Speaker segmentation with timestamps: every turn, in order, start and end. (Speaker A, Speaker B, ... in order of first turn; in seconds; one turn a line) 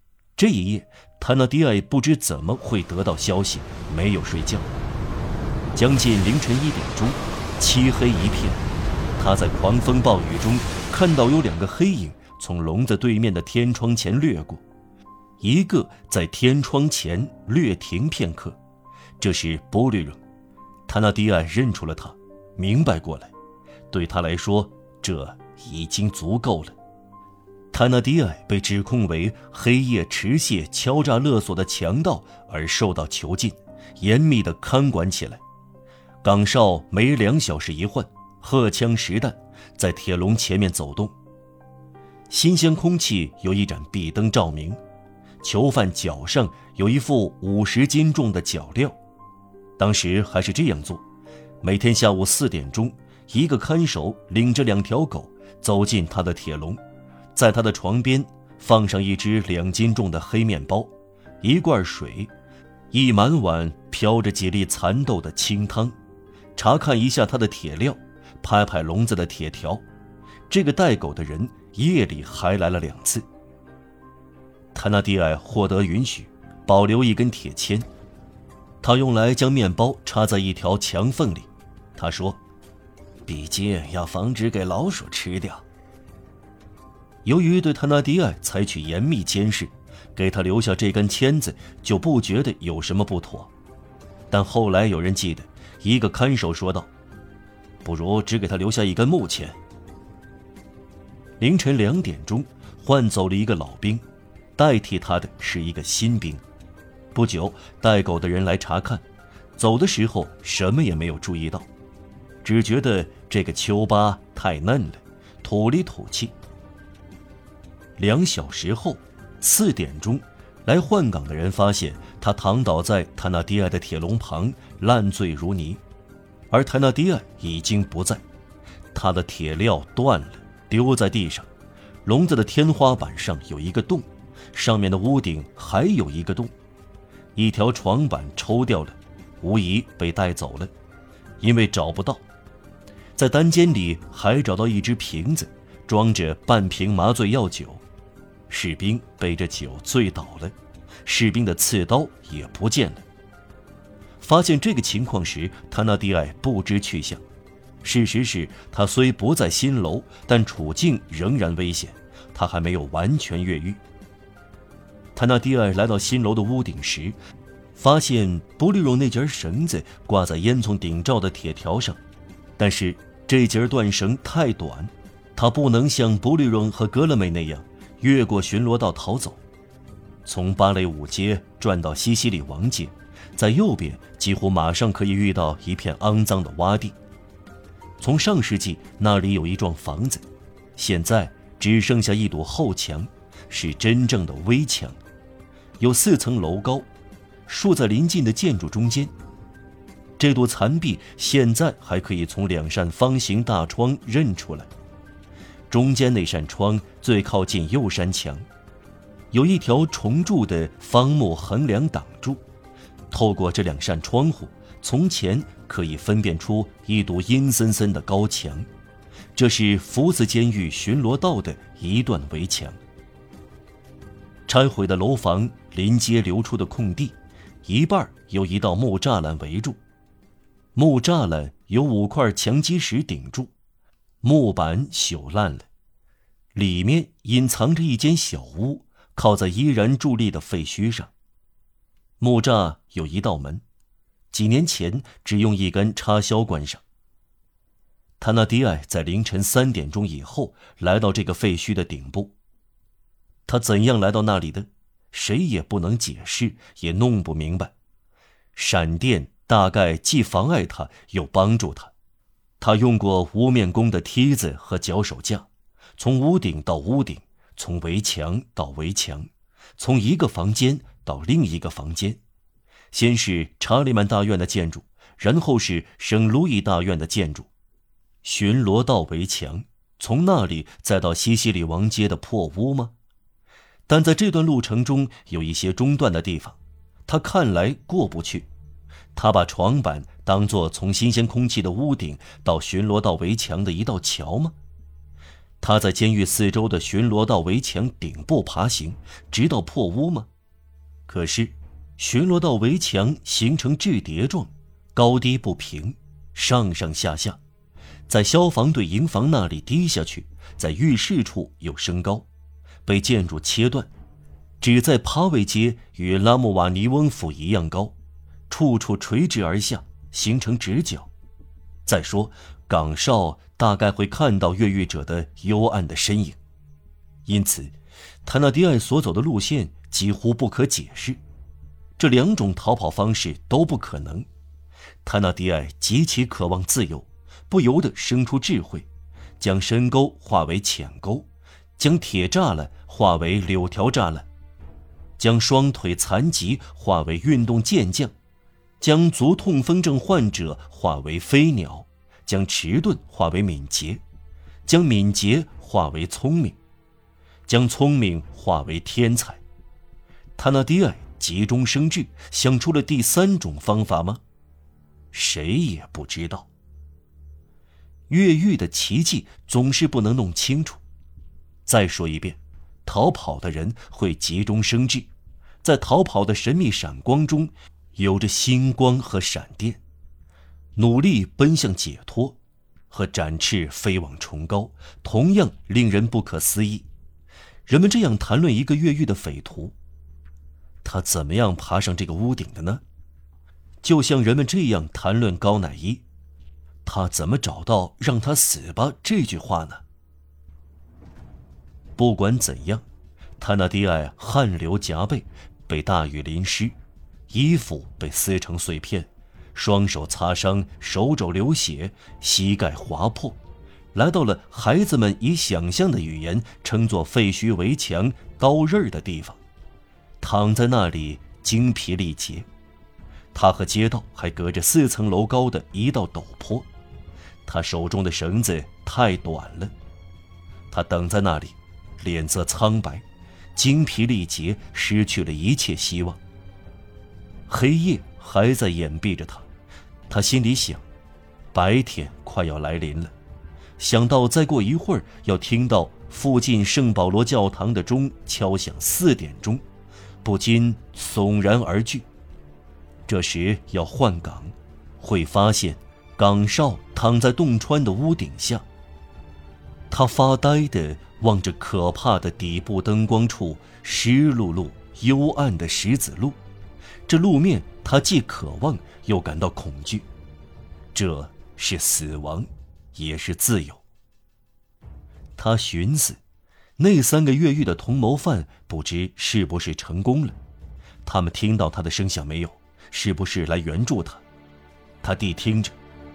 Speaker A: 0.4-4.7
Speaker A: 5.8-8.6
Speaker A: 9.2-14.6
Speaker A: 15.4-18.6
Speaker A: 19.2-20.2
Speaker A: 20.9-23.3
Speaker A: 23.9-26.8
Speaker A: 27.7-35.4
Speaker A: 36.2-41.1
Speaker A: 42.3-44.8
Speaker A: 45.4-49.0
Speaker A: 49.8-51.0
Speaker A: 51.6-56.8
Speaker A: 57.3-62.3
Speaker A: 62.9-66.0
Speaker A: 66.6-69.8
Speaker A: 70.5-73.2
Speaker A: 74.7-77.9
Speaker A: 78.8-82.4
Speaker A: 83.3-85.6
Speaker A: 87.2-93.5
Speaker A: 94.3-96.9
Speaker A: 97.8-99.6
Speaker A: 101.4-104.0
Speaker A: 104.6-106.4
Speaker A: 107.1-109.0
Speaker A: 109.6-111.7
Speaker A: 112.4-116.3
Speaker A: 118.0-125.8
Speaker A: 126.5-128.2
Speaker A: 128.9-131.5
Speaker A: 132.0-136.5
Speaker A: 137.3-140.7
Speaker A: 141.4-142.2
Speaker A: 143.2-147.8
Speaker A: 148.5-153.1
Speaker A: 154.2-157.2
Speaker A: 157.8-163.8
Speaker A: 165.1-167.2
Speaker A: 167.8-172.0
Speaker A: 172.6-179.4
Speaker A: 180.2-186.9
Speaker A: 188.0-190.2
Speaker A: 190.8-195.0
Speaker A: 195.8-196.9
Speaker A: 197.4-199.1
Speaker A: 200.2-204.7
Speaker A: 205.7-208.4
Speaker A: 209.3-212.4
Speaker A: 213.1-218.7
Speaker A: 219.3-222.8
Speaker A: 224.5-229.8
Speaker A: 230.7-233.5
Speaker A: 234.2-235.7
Speaker A: 236.5-241.1
Speaker A: 242.2-243.6
Speaker A: 244.3-246.8
Speaker A: 248.2-252.3
Speaker A: 253.4-257.7
Speaker A: 258.6-261.9
Speaker A: 262.6-272.2
Speaker A: 272.9-277.5
Speaker A: 278.2-282.9
Speaker A: 283.9-288.5
Speaker A: 289.1-294.6
Speaker A: 295.6-300.3
Speaker A: 301.1-307.4
Speaker A: 308.1-312.3
Speaker A: 312.9-313.9
Speaker A: 314.6-317.9
Speaker A: 318.5-321.1
Speaker A: 321.9-326.4
Speaker A: 327.2-327.7
Speaker A: 328.2-331.2
Speaker A: 332.0-334.3
Speaker A: 335.0-338.9
Speaker A: 339.4-344.3
Speaker A: 345.2-348.1
Speaker A: 348.8-354.0
Speaker A: 354.6-356.6
Speaker A: 357.4-359.4
Speaker A: 360.4-364.2
Speaker A: 365.1-366.5
Speaker A: 368.1-370.8
Speaker A: 371.6-375.1
Speaker A: 375.6-379.8
Speaker A: 380.8-382.4
Speaker A: 382.9-386.9
Speaker A: 387.7-389.8
Speaker A: 390.8-392.8
Speaker A: 393.8-396.0
Speaker A: 396.8-399.8
Speaker A: 402.0-402.8
Speaker A: 403.4-406.8
Speaker A: 407.3-413.4
Speaker A: 413.9-419.4
Speaker A: 420.2-422.5
Speaker A: 423.3-426.7
Speaker A: 427.4-429.7
Speaker A: 430.7-433.0
Speaker A: 433.6-436.2
Speaker A: 437.5-439.4
Speaker A: 440.1-440.8
Speaker A: 441.5-443.1
Speaker A: 443.8-449.6
Speaker A: 450.2-452.1
Speaker A: 453.1-458.6
Speaker A: 459.9-466.4
Speaker A: 467.1-470.1
Speaker A: 470.9-473.8
Speaker A: 475.4-476.2
Speaker A: 476.8-480.4
Speaker A: 481.1-484.2
Speaker A: 485.0-485.8